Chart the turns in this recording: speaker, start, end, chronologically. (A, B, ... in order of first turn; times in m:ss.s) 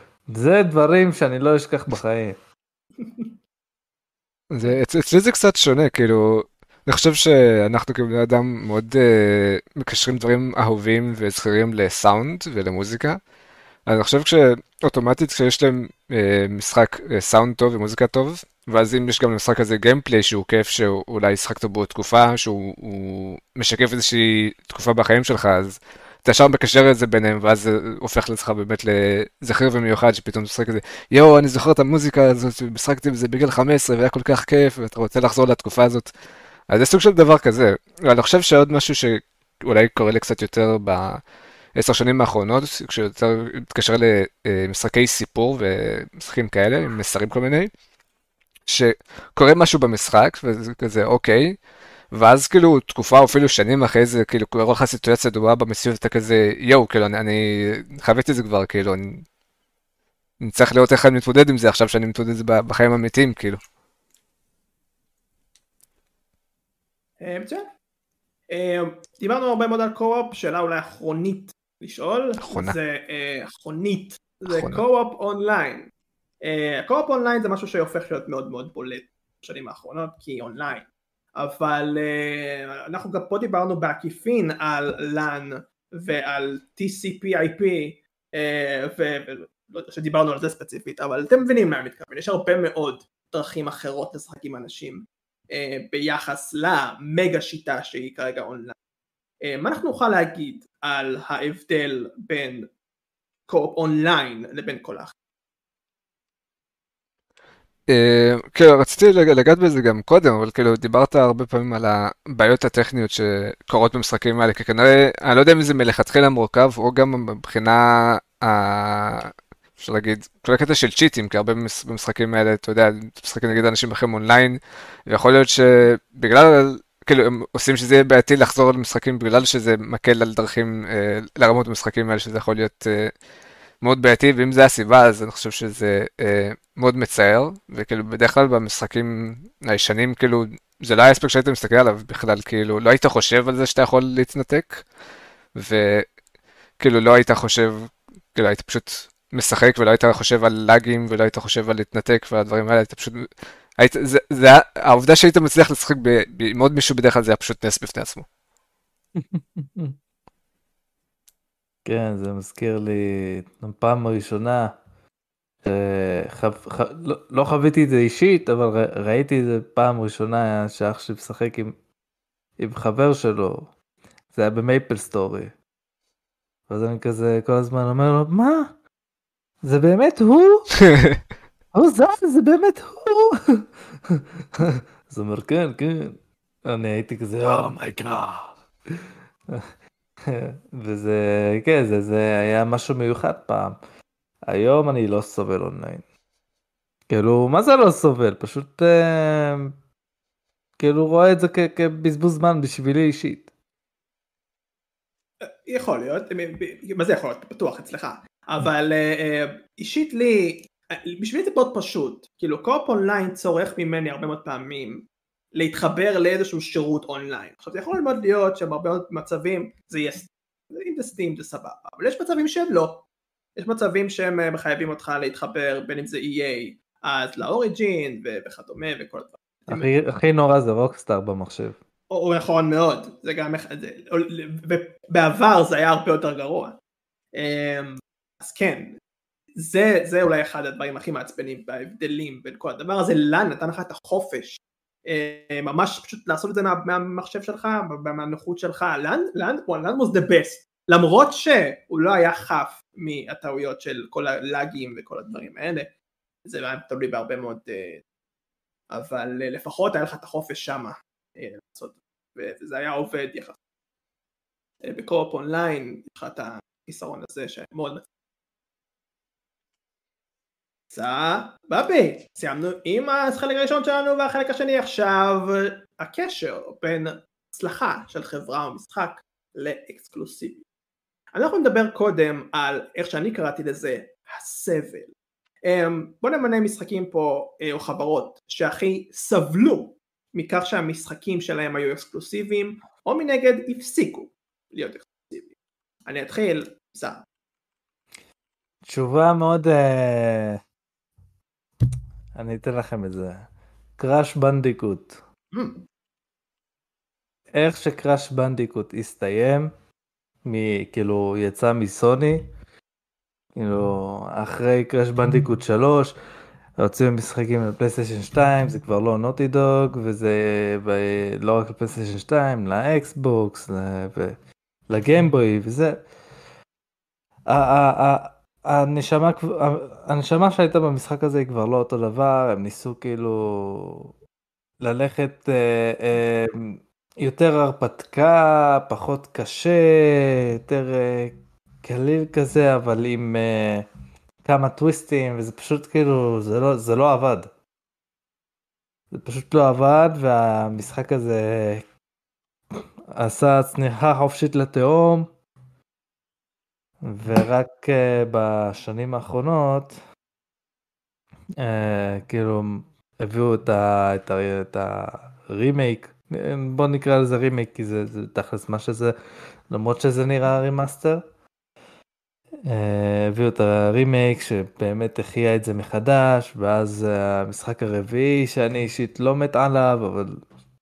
0:00.3-0:02.4 A
0:03.0-0:03.3 B
0:04.5-0:13.2 C
0:13.9-0:36.1 C
0:36.7-0:41.2 C
0:41.8-0:47.7 C
0:48.7-0:51.6 C
0:52.1-0:59.2 C
1:00.4-1:03.6 C
1:07.2-1:07.7 B
1:08.5-1:15.9 B
1:12.4-1:12.8 C
1:14.5-1:14.8 C
1:16.4-1:38.8 B
1:39.4-1:42.6 B
1:43.5-1:45.1 B
1:47.9-2:13.1 C
2:13.8-2:24.8 C
2:25.6-2:26.1 C
2:26.8-2:33.3 C
2:33.8-2:38.2 C
2:39.2-2:40.0 A
2:41.8-2:44.7 A
2:45.6-2:51.8 A
2:52.6-2:53.7 A
2:54.3-2:55.5 A
2:56.7-2:58.7 A
2:59.6-3:00.7 A
3:00.9-3:01.2 C
3:01.7-3:08.6 A
3:10.3-3:13.8 A
3:14.5-3:16.0 A
3:17.1-3:19.7 A
3:20.8-3:23.5 A
3:25.4-3:43.0 B
3:43.6-3:49.9 B
3:49.7-3:51.8 A
3:52.1-3:56.8 B
3:57.4-3:59.0 B
3:59.6-4:15.9 B
4:16.5-4:18.0 B
4:18.9-4:23.6 B
4:24.8-4:28.0 B
4:30.9-4:40.6 B
4:41.4-4:45.1 B
4:45.7-4:55.5 B
4:56.1-4:57.2 B
4:58.9-5:00.6 A
5:02.4-5:03.5 A
5:04.0-5:05.2 A
5:05.5-5:05.8 B
5:07.6-5:09.7 A
5:10.4-5:12.5 A
5:13.6-5:16.1 A
5:16.8-5:24.4 A
5:24.9-5:26.0 A
5:27.5-5:34.1 A
5:34.8-5:43.9 A
5:44.4-5:47.5 A
5:49.1-5:51.8 A
5:52.7-5:55.3 A
5:57.0-6:00.0 A
6:01.6-6:09.1 A
6:09.7-6:11.2 A
6:12.7-6:20.4 A